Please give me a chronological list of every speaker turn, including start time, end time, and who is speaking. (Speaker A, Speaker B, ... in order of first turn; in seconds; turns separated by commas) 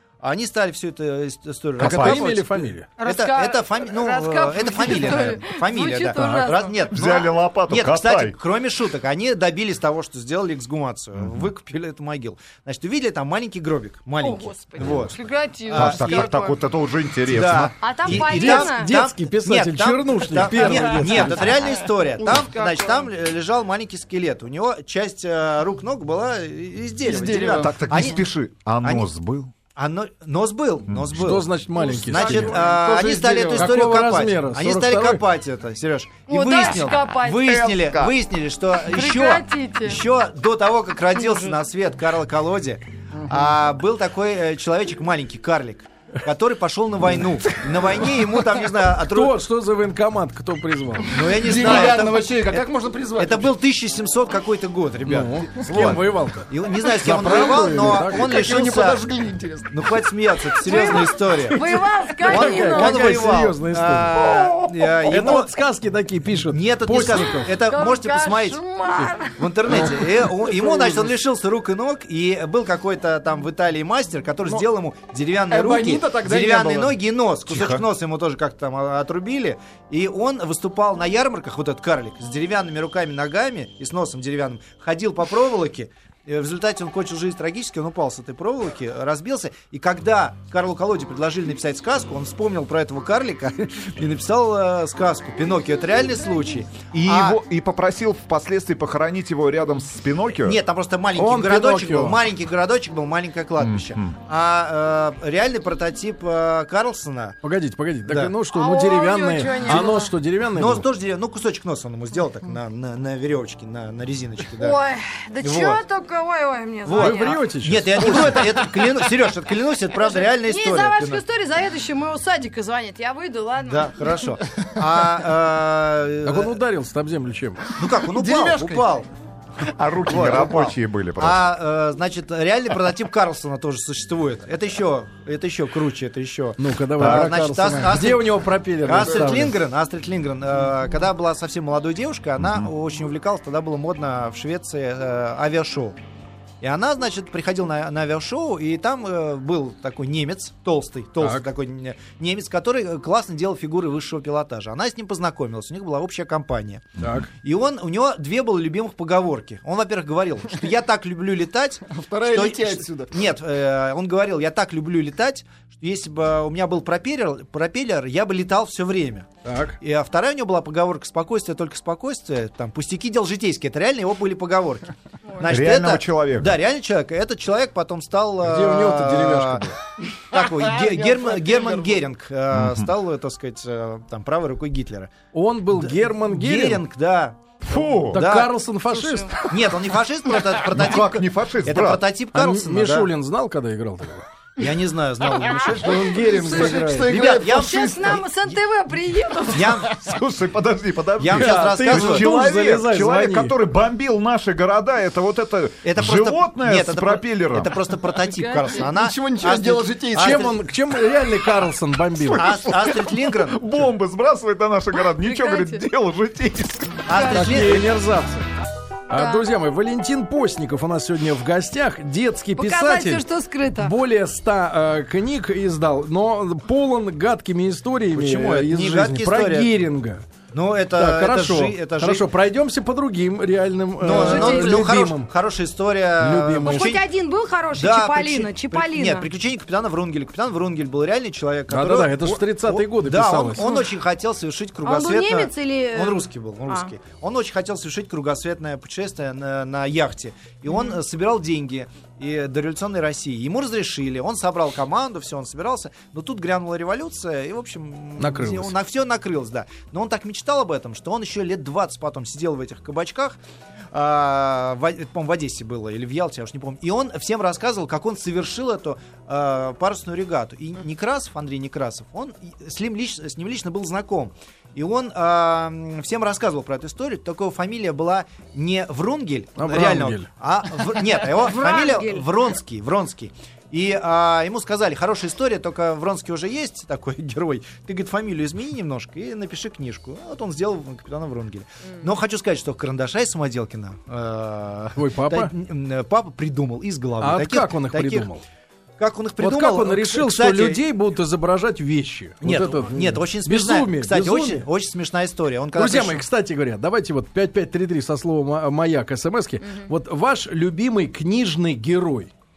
Speaker A: 0.2-15.2, Speaker B: 1.8-2.3, Speaker C: 1.8-2.9, Speaker D: 3.0-6.8, Speaker C: 6.2-6.5, Speaker B: 6.9-8.4, Speaker B: 11.2-11.5, Speaker D: 14.2-16.6, Speaker B: 14.8-15.2, Speaker A: 15.7-16.4, Speaker B: 15.7-18.3, Speaker A: 17.3-28.2, Speaker D: 17.8-18.9, Speaker C: 18.3-21.5, Speaker D: 20.5-23.1, Speaker D: 27.1-28.0, Speaker E: 27.1-27.7, Speaker B: 27.4-29.5, Speaker A: 29.8-49.4, Speaker B: 30.9-31.4, Speaker C: 31.1-32.6, Speaker E: 31.9-33.7, Speaker C: 33.5-35.2, Speaker D: 36.3-37.5, Speaker B: 37.4-38.2, Speaker D: 38.8-40.0, Speaker D: 41.1-41.5, Speaker E: 43.1-43.4, Speaker C: 48.8-51.2, Speaker A: 51.1-59.0, Speaker E: 51.3-53.5, Speaker C: 55.0-58.5, Speaker E: 57.2-60.0, Speaker A: 59.7-61.6, Speaker D: 60.6-63.4, Speaker C: 60.7-64.2, Speaker A: 62.2-65.5, Speaker E: 64.2-64.8, Speaker C: 65.0-67.5, Speaker A: 66.5-68.6, Speaker D: 67.1-69.9, Speaker A: 69.4-97.4, Speaker C: 69.7-70.0, Speaker E: 70.4-71.1, Speaker E: 75.5-77.0, Speaker B: 77.5-77.8, Speaker B: 96.9-100.6, Speaker A: 100.4-107.4, Speaker C: 101.2-102.2, Speaker B: 103.6-104.1, Speaker C: 107.4-110.8, Speaker A: 108.1-108.3, Speaker D: 108.5-110.1, Speaker A: 110.5-114.8, Speaker D: 114.6-117.4, Speaker A: 115.4-115.8, Speaker A: 116.8-121.2, Speaker C: 116.9-118.6, Speaker D: 120.0-124.3, Speaker A: 123.7-126.6, Speaker C: 126.2-127.7, Speaker A: 127.8-129.1, Speaker E: 128.0-128.8, Speaker B: 129.6-131.4, Speaker A: 130.1-146.0, Speaker C: 136.6-139.6, Speaker B: 142.4-142.7, Speaker A: 146.6-156.9, Speaker C: 151.2-151.5, Speaker C: 157.0-157.3, Speaker A: 157.4-169.3, Speaker E: 161.9-163.1, Speaker C: 169.4-169.8, Speaker A: 169.8-179.6, Speaker B: 175.4-176.6, Speaker C: 178.4-179.8, Speaker A: 180.3-185.1, Speaker E: 180.3-182.1, Speaker B: 182.5-182.9, Speaker C: 185.3-186.8, Speaker A: 185.8-188.5, Speaker B: 187.6-188.2, Speaker C: 188.1-189.8, Speaker D: 189.0-189.4, Speaker A: 189.5-193.1, Speaker B: 190.6-192.0, Speaker C: 192.3-194.3, Speaker A: 194.6-198.6, Speaker C: 195.7-197.2, Speaker D: 196.2-199.9, Speaker E: 196.4-198.2, Speaker A: 199.5-200.0, Speaker B: 200.0-207.7, Speaker A: 201.2-202.3, Speaker C: 201.3-203.6, Speaker A: 205.8-210.6, Speaker D: 208.2-208.9, Speaker E: 208.7-210.5, Speaker C: 210.2-212.5, Speaker B: 212.2-217.1, Speaker A: 212.3-213.7, Speaker D: 215.0-215.8, Speaker A: 217.1-217.9, Speaker D: 217.1-217.7, Speaker C: 217.3-218.5, Speaker C: 219.1-223.2, Speaker D: 219.1-219.4, Speaker D: 222.6-223.9, Speaker C: 223.8-230.2, Speaker A: 228.1-229.7, Speaker A: 230.5-232.3, Speaker C: 230.9-235.3, Speaker A: 234.0-237.0, Speaker D: 234.1-234.9, Speaker C: 236.2-237.0, Speaker D: 236.6-239.3, Speaker A: 237.8-263.4, Speaker C: 241.7-243.8, Speaker D: 243.6-243.9, Speaker D: 244.8-246.9, Speaker D: 250.7-251.0, Speaker C: 258.2-258.8, Speaker A: 263.9-298.3, Speaker C: 279.6-280.3, Speaker D: 281.3-282.3, Speaker C: 295.0-295.5, Speaker C: 297.2-298.4, Speaker A: 299.0-300.8, Speaker C: 299.4-304.7, Speaker A: 302.4-306.2, Speaker C: 305.8-312.3